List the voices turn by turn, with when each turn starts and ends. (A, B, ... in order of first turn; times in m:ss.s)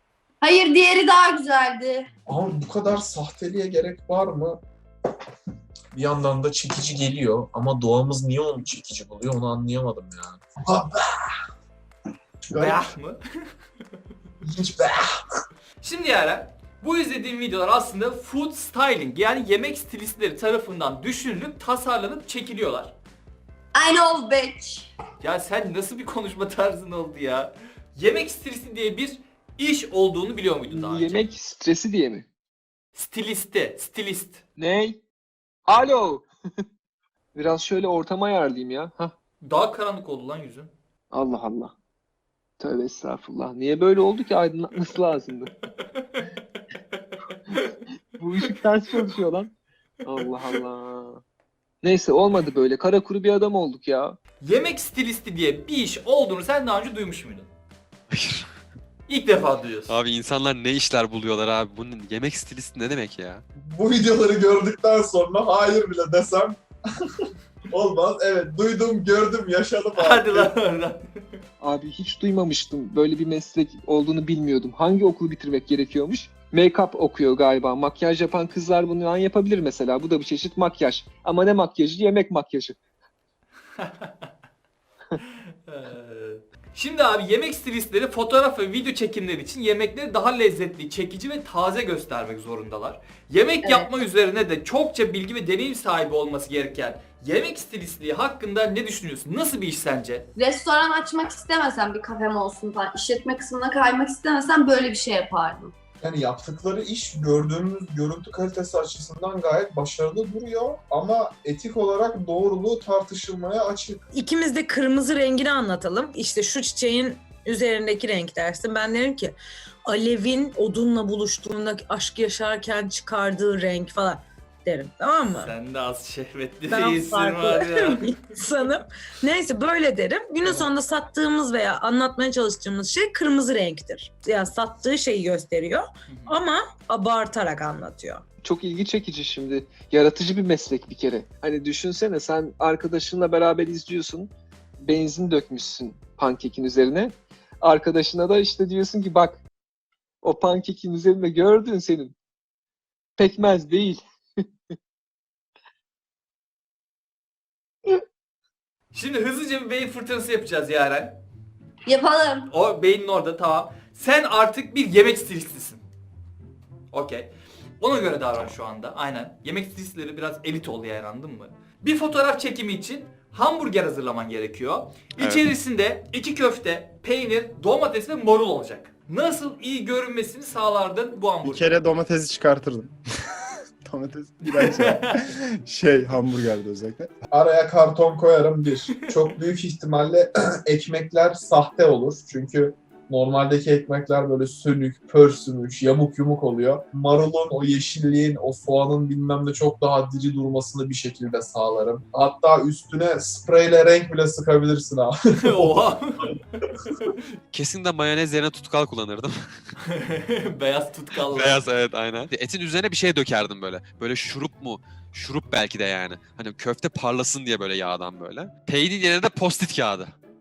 0:00.4-0:02.1 A
0:02.3-0:04.6 B
0:05.9-0:11.1 B
0:12.5-0:12.9 B
0:12.6-0:13.2 C
0:14.4-0:15.1 B
0:15.8-0:22.9 C
0:23.7-0:24.9 A
0:25.2-0:31.2 C
0:30.7-0:32.3 D
0:32.9-0:34.4 C
0:34.6-0:35.0 D
0:35.7-0:36.6 D
0:37.4-0:39.1 D
0:39.4-0:40.7 C
0:41.1-0:41.7 D
0:42.6-0:45.5 D
0:48.2-0:49.5 D
0:50.0-0:51.2 D
0:51.8-0:54.2 D
0:54.4-0:57.5 C
0:58.1-0:58.5 E
0:59.1-1:00.0 C
0:59.9-1:03.4 E
1:03.7-1:06.6 B
1:07.2-1:10.5 B
1:10.0-1:11.4 C
1:11.6-1:22.8 D
1:23.8-1:24.1 C
1:25.7-1:40.3 C
1:33.6-1:33.9 A
1:40.4-1:45.7 A
1:46.0-1:54.0 B
1:54.1-2:05.5 F
2:05.3-2:08.2 C
2:06.7-2:18.2 F
2:10.4-2:10.7 C
2:16.1-2:16.4 C
2:18.4-2:29.4 D
2:30.2-2:32.2 D
2:33.2-2:34.7 D
2:38.9-2:41.2 C
2:41.9-2:42.5 A
2:42.5-2:45.8 C
2:46.9-2:47.3 C
2:47.8-3:01.7 C
2:55.2-2:55.4 E
3:01.4-3:02.9 G
3:03.8-3:07.1 G
3:04.5-3:05.1 C
3:07.3-3:25.8 B
3:25.4-3:26.4 C
3:27.5-3:29.4 E
3:29.9-3:31.7 C
3:31.3-3:40.1 E